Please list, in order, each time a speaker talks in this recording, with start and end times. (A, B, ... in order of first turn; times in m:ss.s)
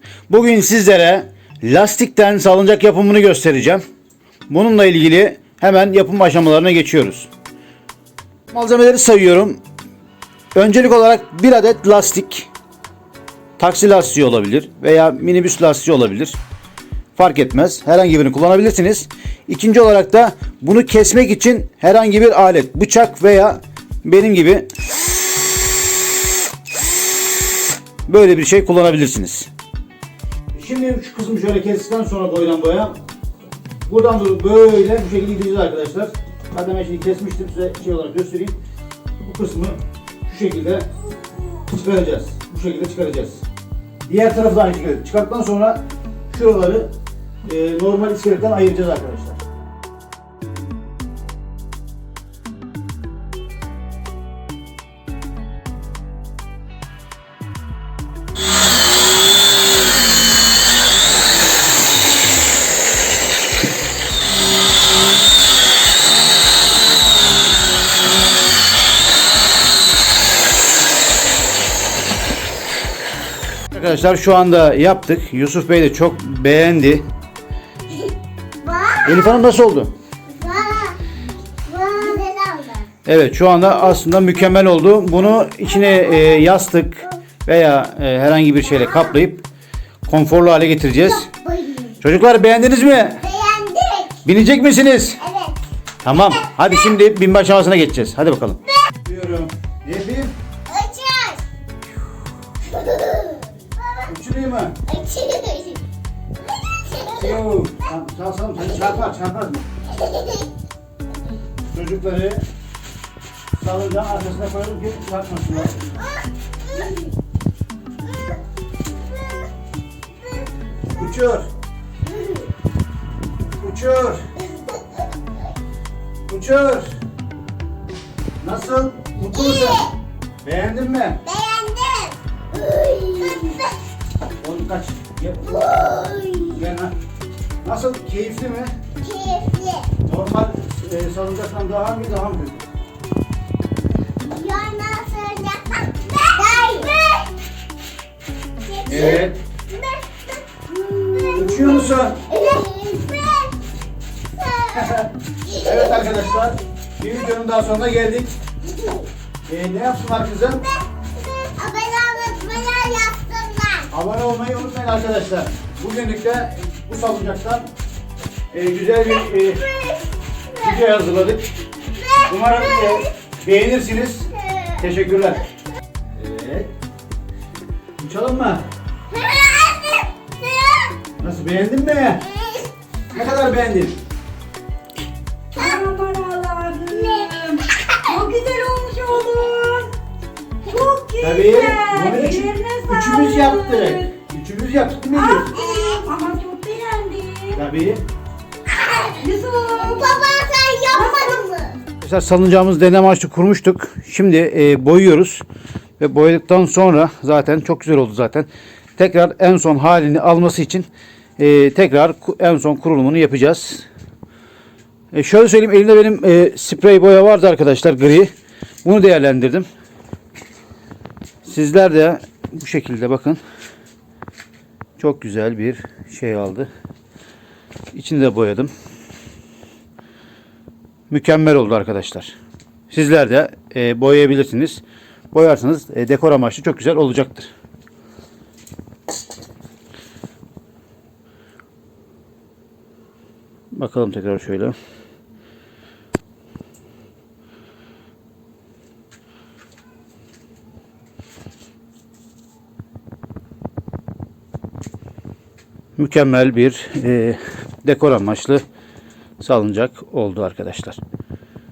0:00.3-0:03.8 A
0:04.5-0:07.3 A
0:08.5-0:09.6 A
0:10.6-0:12.5 A
0:13.6-0:16.4 A
0:17.2-0:24.7 A
0:28.1-0:29.5 A
0:30.5-0:33.0 A
0:33.9-0:38.6 A
0:39.2-0:40.9 A
0:41.6-0:43.4 A
0:44.1-0:46.9 A
0:47.4-0:49.4 A
1:13.7-1:17.0 A
1:18.6-1:19.3 B
1:19.0-1:19.9 A
1:20.3-1:21.0 B
1:21.7-1:22.9 B
1:23.1-1:29.4 A
1:25.7-1:26.4 B
1:30.1-1:31.3 A
1:31.0-1:32.0 B
1:32.0-1:33.2 A
1:33.2-1:34.2 B
1:34.2-1:35.2 A
1:35.2-1:35.6 B
1:36.0-1:40.3 A
1:40.7-1:41.4 B
1:42.7-1:44.1 B
1:44.1-1:44.8 A
1:44.9-1:45.9 B
1:46.7-1:47.4 B
1:47.1-1:49.7 A
1:50.0-1:50.5 B
1:51.7-1:52.4 A
1:53.6-1:55.8 A
1:56.0-1:57.1 B
2:00.9-2:01.5 A
2:02.0-2:02.5 B
2:03.6-2:04.2 A
2:06.3-2:06.9 A
2:08.4-2:09.8 A
2:09.3-2:10.0 B
2:10.4-2:11.2 A
2:11.2-2:13.7 B
2:14.4-2:15.7 A
2:15.4-2:16.7 B
2:16.5-2:16.9 A
2:17.6-2:18.7 A
2:19.0-2:19.9 B
2:20.0-2:22.6 A
2:24.2-2:27.3 B
2:28.6-2:33.6 B
2:28.9-2:29.4 A
2:31.3-2:32.2 A
2:34.3-2:36.0 B
2:34.8-2:35.1 A
2:35.6-2:38.4 A
2:38.6-2:39.1 B
2:39.5-2:40.6 A
2:41.4-2:43.9 B
2:43.9-2:47.7 A
2:48.5-2:49.6 A
2:50.6-2:51.4 A
2:52.0-2:53.1 B
2:52.2-2:55.5 A
2:54.4-2:54.8 B
2:56.1-2:56.7 A
2:58.0-2:58.6 A
2:59.1-3:01.0 B
3:01.2-3:02.2 A
3:02.3-3:02.7 B
3:03.1-3:04.0 A
3:05.5-3:09.9 C
3:10.6-3:14.1 C
3:11.2-3:15.5 A
3:15.1-3:17.6 C
3:15.5-3:15.9 B
3:17.5-3:18.0 A
3:18.9-3:20.3 C
3:19.6-3:21.8 B
3:20.9-3:21.4 C
3:22.0-3:25.4 A
3:26.0-3:30.9 A
3:31.4-3:33.9 A
3:35.1-3:38.3 A
3:38.8-3:39.7 A
3:41.4-3:43.4 A
3:45.0-3:46.7 A
3:47.9-3:48.7 A
3:51.1-3:52.4 A
3:52.9-3:57.5 A
4:03.7-4:04.8 A
4:16.0-4:18.6 A
4:19.4-4:21.0 A